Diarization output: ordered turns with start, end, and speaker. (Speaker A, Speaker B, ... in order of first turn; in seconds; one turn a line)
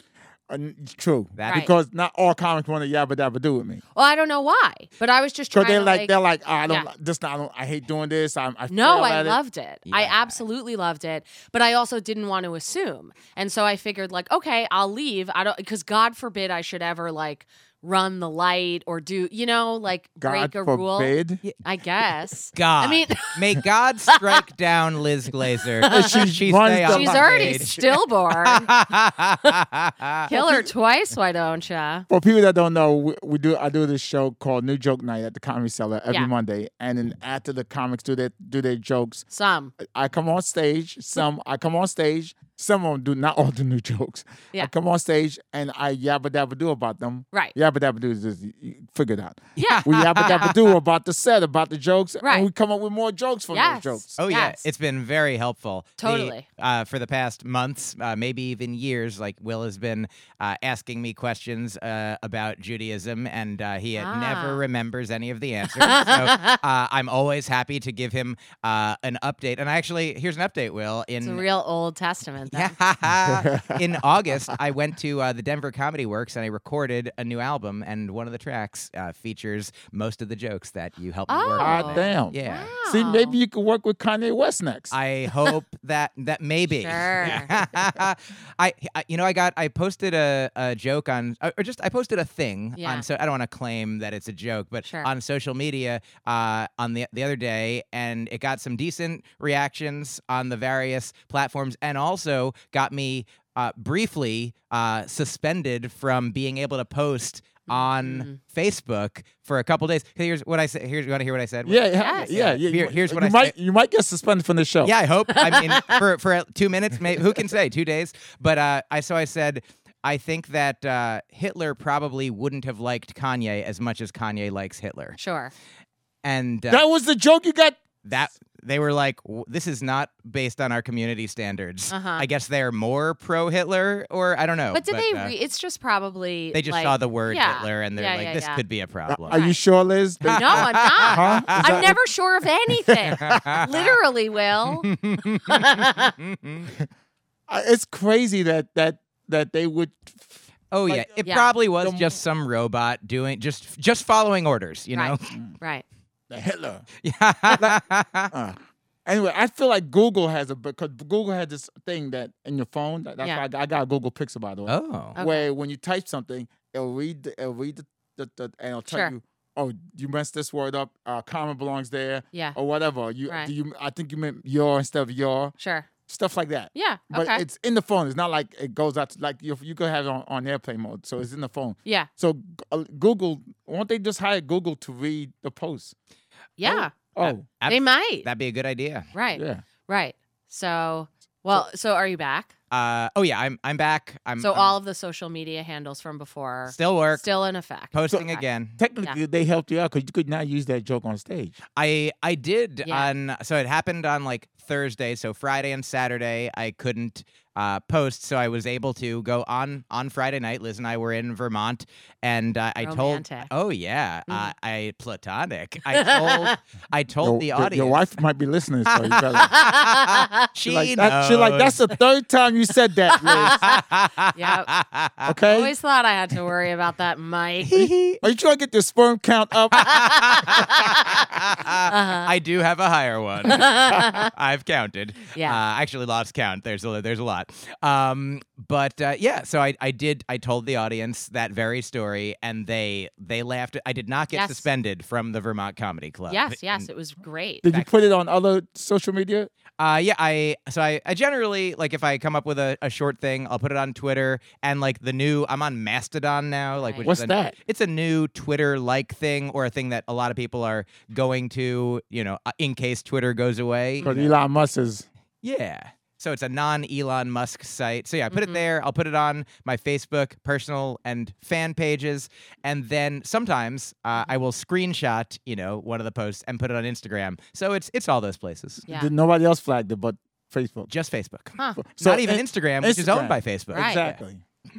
Speaker A: 0.5-3.8
Speaker B: 1.4-1.7
Speaker C: 3.9-6.1
Speaker A: 5.5-9.4
Speaker C: 8.7-23.6
Speaker B: 9.9-10.4
Speaker A: 20.2-21.4
Speaker B: 22.5-27.7
Speaker C: 24.1-24.4
Speaker C: 25.8-26.3
Speaker A: 25.9-28.0
Speaker C: 26.9-28.7
Speaker B: 28.4-30.3
Speaker C: 30.2-32.1
Speaker A: 30.3-30.7
Speaker A: 32.1-39.2
Speaker C: 39.3-39.7
Speaker A: 39.8-54.1
Speaker C: 49.6-50.3
Speaker B: 49.6-50.6
Speaker C: 52.2-52.5
Speaker C: 53.5-54.6
Speaker B: 54.2-71.4
Speaker C: 56.0-56.5
Speaker C: 64.0-64.6
Speaker C: 65.7-66.6
Speaker C: 71.2-72.7
Speaker B: 72.5-82.7
Speaker A: 73.2-74.4
Speaker C: 81.3-83.3
Speaker A: 81.6-84.9
Speaker B: 84.9-113.5
Speaker C: 86.7-87.5
Speaker A: 87.2-87.8
Speaker C: 92.8-93.0
Speaker C: 107.7-108.4
Speaker A: 111.6-114.9
Speaker C: 112.0-112.3
Speaker B: 114.8-125.2
Speaker C: 115.3-116.0
Speaker C: 125.2-125.5
Speaker B: 126.2-126.8
Speaker A: 126.7-127.8
Speaker B: 128.0-135.3
Speaker C: 131.9-132.2
Speaker C: 134.7-138.6
Speaker B: 136.5-139.4
Speaker A: 139.1-142.0
Speaker C: 139.3-139.6
Speaker B: 140.3-141.9
Speaker C: 140.3-144.9
Speaker A: 142.9-143.6
Speaker B: 143.2-143.9
Speaker B: 144.8-146.7
Speaker C: 145.4-146.1
Speaker A: 147.5-151.2
Speaker B: 150.7-155.2
Speaker C: 151.2-151.5
Speaker A: 151.8-152.1
Speaker C: 154.9-155.8
Speaker A: 156.3-156.8
Speaker B: 157.0-158.3
Speaker A: 158.3-175.5
Speaker B: 164.7-165.2
Speaker C: 165.2-165.5
Speaker C: 175.6-175.9
Speaker A: 176.1-185.9
Speaker C: 176.7-177.4
Speaker C: 186.6-186.9
Speaker A: 186.6-187.4
Speaker B: 187.2-189.1
Speaker C: 187.7-188.2
Speaker C: 189.1-192.5
Speaker A: 189.3-189.6
Speaker B: 192.7-194.7
Speaker C: 194.4-198.4
Speaker B: 196.7-197.2
Speaker B: 197.9-198.8
Speaker A: 198.8-201.6
Speaker B: 201.8-218.0
Speaker C: 202.8-203.1
Speaker C: 212.8-213.5
Speaker C: 215.9-216.6
Speaker A: 217.2-219.6
Speaker B: 218.9-221.8
Speaker C: 219.4-220.5
Speaker A: 220.7-223.6
Speaker C: 223.1-223.8
Speaker B: 223.3-225.3
Speaker C: 224.3-224.7
Speaker A: 225.2-225.7
Speaker C: 225.4-227.9
Speaker B: 227.6-228.2
Speaker A: 228.2-230.1
Speaker B: 229.8-246.9
Speaker C: 229.8-231.3
Speaker C: 231.9-232.3
Speaker C: 233.5-234.3
Speaker C: 235.3-235.6
Speaker C: 244.3-244.6
Speaker C: 246.3-247.7
Speaker A: 247.6-249.5
Speaker B: 249.8-264.2
Speaker C: 256.8-257.1
Speaker A: 257.0-257.6
Speaker C: 264.0-264.3
Speaker A: 264.0-265.1
Speaker B: 265.4-278.8
Speaker C: 268.3-268.6
Speaker A: 278.9-280.9
Speaker B: 280.9-284.2
Speaker A: 281.8-284.4
Speaker C: 283.7-284.1